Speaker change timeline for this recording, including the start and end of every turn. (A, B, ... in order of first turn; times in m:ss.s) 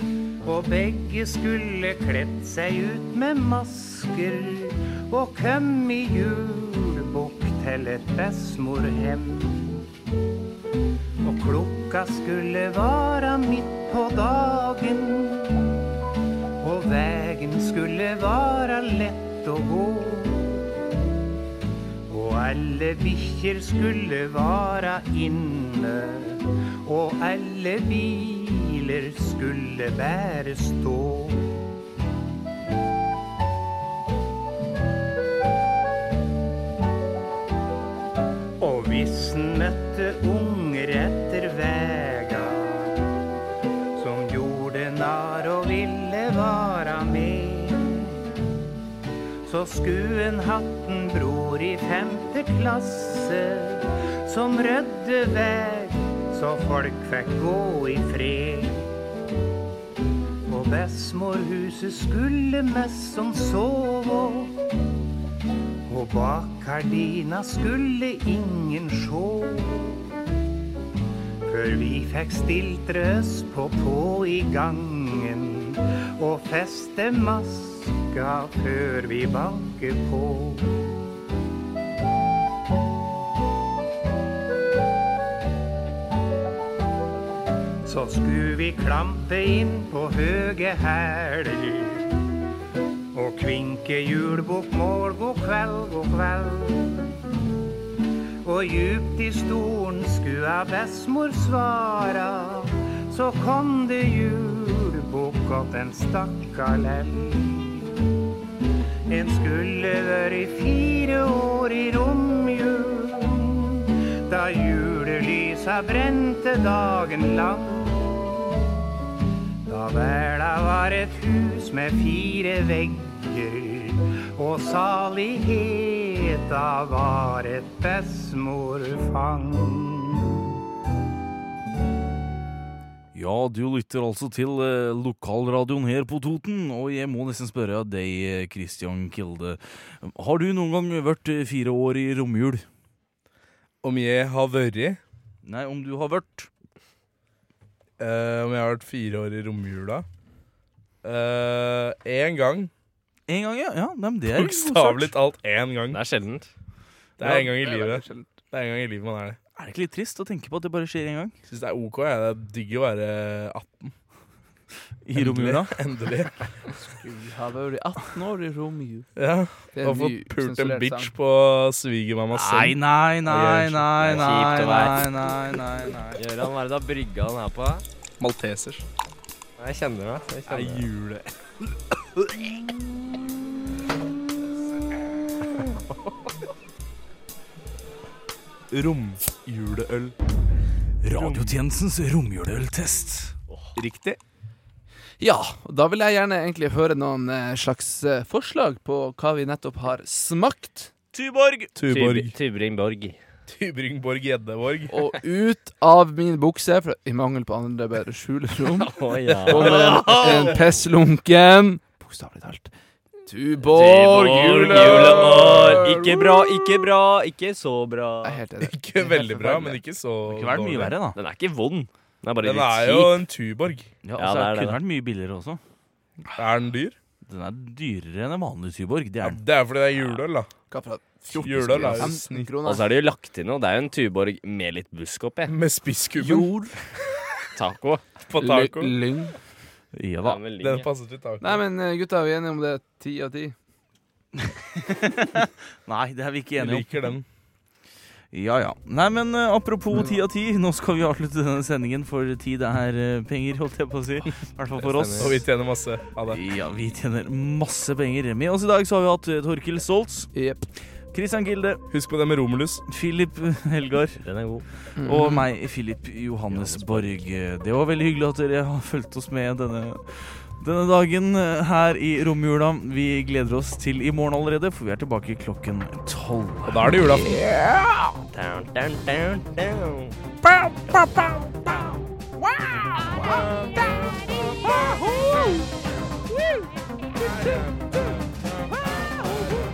0:00.4-0:09.8 A
0:11.2-0:15.7 A
0:16.6-0:20.7 A
0:22.1-0:31.7 A
0:38.6-0:43.0 A
0:43.9-0:48.1 A
0:49.4-0:58.9 A
1:00.5-1:04.6 A
1:05.8-1:10.1 A
1:11.4-1:20.9 A
1:27.8-1:32.1 A
1:33.1-1:37.2 A
1:38.4-1:48.0 A
1:49.1-1:58.6 A
1:59.6-2:10.5 A
2:13.1-2:22.7 B
2:23.8-2:25.0 C
2:25.4-2:26.5 B
2:28.0-2:30.0 C
2:31.0-2:32.7 C
2:33.3-2:35.1 B
2:34.3-2:36.0 C
2:35.9-2:36.5 D
2:37.2-2:39.4 C
2:37.2-2:38.3 E
2:39.6-2:41.3 B
2:41.5-2:43.9 C
2:45.0-2:45.8 B
2:45.1-2:46.3 C
2:47.0-2:49.1 E
2:49.2-2:54.1 C
2:49.7-2:51.1 E
2:52.3-2:56.2 B
2:54.0-2:55.1 D
2:56.2-2:57.8 D
2:58.2-2:58.8 C
2:59.6-3:00.8 D
3:00.5-3:02.4 C
3:08.7-3:10.1 C
3:11.0-3:13.3 B
3:11.1-3:11.5 D
3:13.8-3:14.2 C
3:15.2-3:20.9 E
3:21.1-3:21.7 B
3:21.8-3:22.3 C
3:21.9-3:23.2 D
3:23.5-3:24.9 C
3:24.9-3:28.9 E
3:28.8-3:30.5 D
3:29.4-3:32.7 E
3:29.7-3:30.5 B
3:33.2-3:36.2 E
3:33.7-3:38.4 D
3:33.9-3:35.9 C
3:38.2-3:39.8 E
3:38.6-3:40.9 C
3:40.3-3:41.2 B
3:41.1-3:43.2 D
3:42.4-3:43.9 C
3:44.0-3:45.6 B
3:44.2-3:44.8 D
3:46.3-3:47.0 C
3:47.2-3:49.4 B
3:49.2-3:50.5 C
3:50.7-3:52.8 E
3:51.3-3:52.5 C
3:52.6-3:55.5 D
3:55.5-3:56.6 C
3:56.2-3:56.7 E
3:57.5-3:58.0 D
3:58.3-3:59.0 C
3:58.4-3:59.3 E
3:59.9-4:00.4 B
4:00.2-4:00.9 D
4:00.6-4:01.6 C
4:01.4-4:03.5 E
4:04.4-4:06.9 B
4:06.6-4:07.2 C
4:08.3-4:15.4 B
4:14.8-4:15.3 D
4:15.2-4:16.4 C
4:16.3-4:20.3 B
4:20.3-4:20.6 E
4:21.1-4:21.8 B
4:21.9-4:22.8 C
4:22.9-4:24.2 B
4:24.2-4:24.6 D
4:25.0-4:25.5 E
4:25.0-4:37.3 B
4:26.6-4:27.2 D
4:36.7-4:37.3 C
4:38.2-4:40.1 D
4:47.2-4:48.1 C